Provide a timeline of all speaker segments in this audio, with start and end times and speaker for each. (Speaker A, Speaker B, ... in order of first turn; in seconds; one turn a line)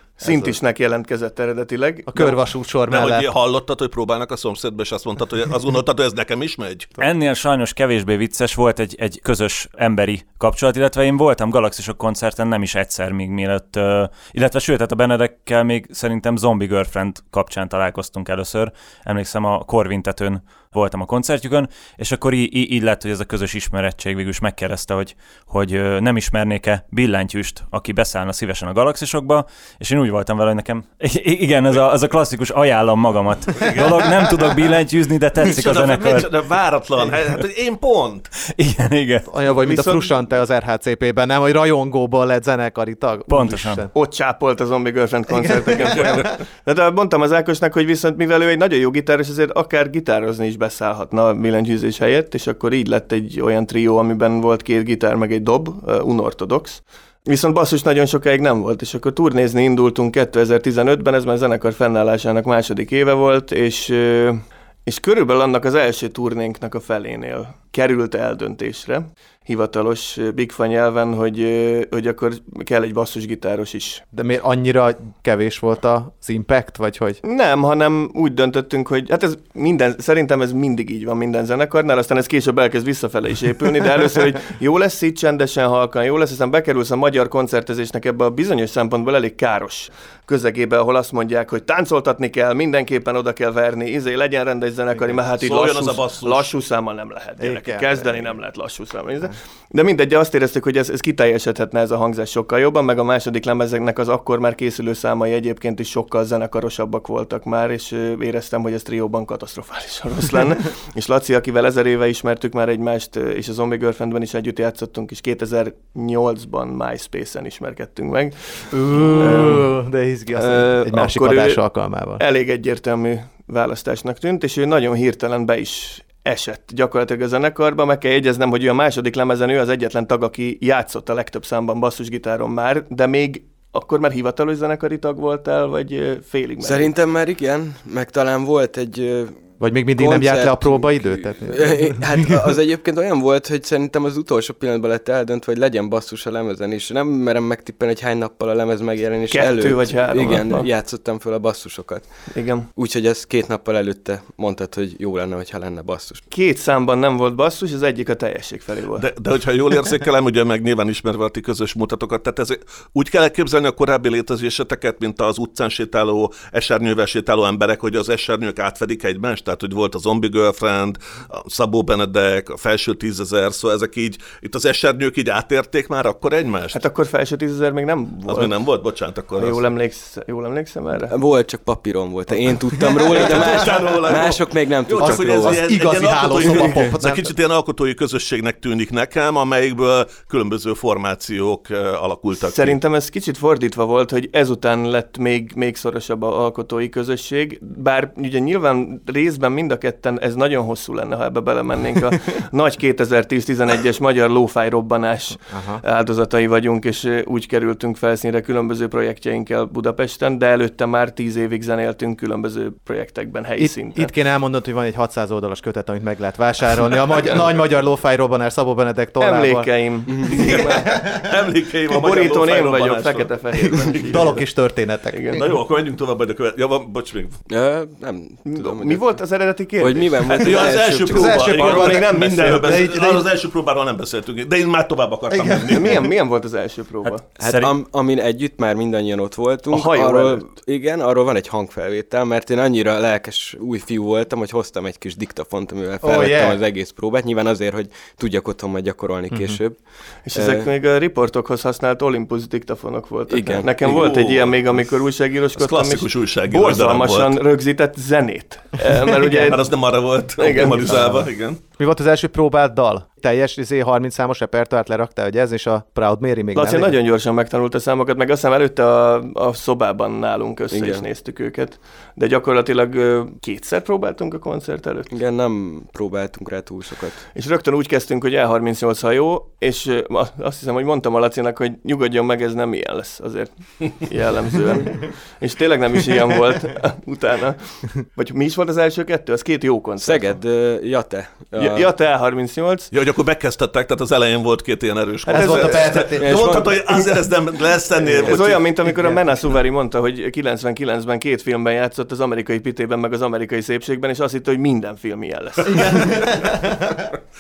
Speaker A: 0.2-2.4
Speaker B: 2.1-3.3
Speaker C: 2.9-6.9
Speaker D: 7.0-36.3
Speaker C: 33.6-33.9
Speaker C: 35.4-38.3
Speaker D: 38.6-39.3
Speaker B: 39.3-43.9
Speaker A: 39.6-40.1
Speaker D: 43.3-43.8
Speaker A: 43.9-74.0
Speaker B: 45.3-46.2
Speaker C: 45.8-46.3
Speaker B: 74.1-77.2
Speaker A: 77.2-119.7
Speaker C: 95.3-96.5
Speaker B: 97.4-98.3
Speaker B: 118.7-122.2
Speaker A: 120.3-121.6
Speaker A: 122.2-136.9
Speaker E: 136.6-152.1
Speaker B: 139.6-142.4
Speaker A: 149.3-150.7
Speaker A: 152.3-152.7
Speaker E: 152.8-156.2
Speaker A: 156.3-159.1
Speaker C: 159.0-176.8
Speaker A: 176.7-178.6
Speaker C: 178.3-179.7
Speaker A: 179.3-181.1
Speaker E: 181.1-185.8
Speaker C: 183.1-192.8
Speaker B: 185.0-187.3
Speaker E: 186.4-186.9
Speaker A: 192.4-214.1
Speaker B: 205.5-205.8
Speaker B: 213.6-219.7
Speaker A: 219.2-220.8
Speaker E: 220.1-220.4
Speaker C: 220.3-224.3
Speaker A: 221.9-224.4
Speaker B: 224.1-225.4
Speaker A: 225.1-225.4
Speaker C: 225.3-227.4
Speaker E: 227.5-229.1
Speaker A: 228.4-232.8
Speaker E: 229.8-231.3
Speaker C: 230.4-236.1
Speaker B: 230.6-233.3
Speaker B: 235.3-235.7
Speaker A: 235.7-237.3
Speaker D: 237.0-237.8
Speaker E: 237.5-249.8
Speaker A: 239.7-240.5
Speaker B: 246.0-246.6
Speaker B: 249.3-249.6
Speaker A: 250.3-259.8
Speaker E: 250.3-250.7
Speaker E: 253.3-253.9
Speaker C: 253.8-254.9
Speaker C: 255.5-257.4
Speaker C: 259.2-261.6
Speaker A: 260.4-261.2
Speaker B: 261.8-266.9
Speaker A: 266.6-275.1
Speaker E: 270.7-271.1
Speaker E: 275.1-277.2
Speaker A: 277.3-290.4
Speaker E: 290.0-291.9
Speaker A: 291.6-292.9
Speaker C: 292.9-298.8
Speaker A: 295.3-296.1
Speaker B: 295.3-296.6
Speaker E: 296.2-297.0
Speaker E: 298.2-298.4
Speaker A: 298.2-306.2
Speaker B: 305.7-307.0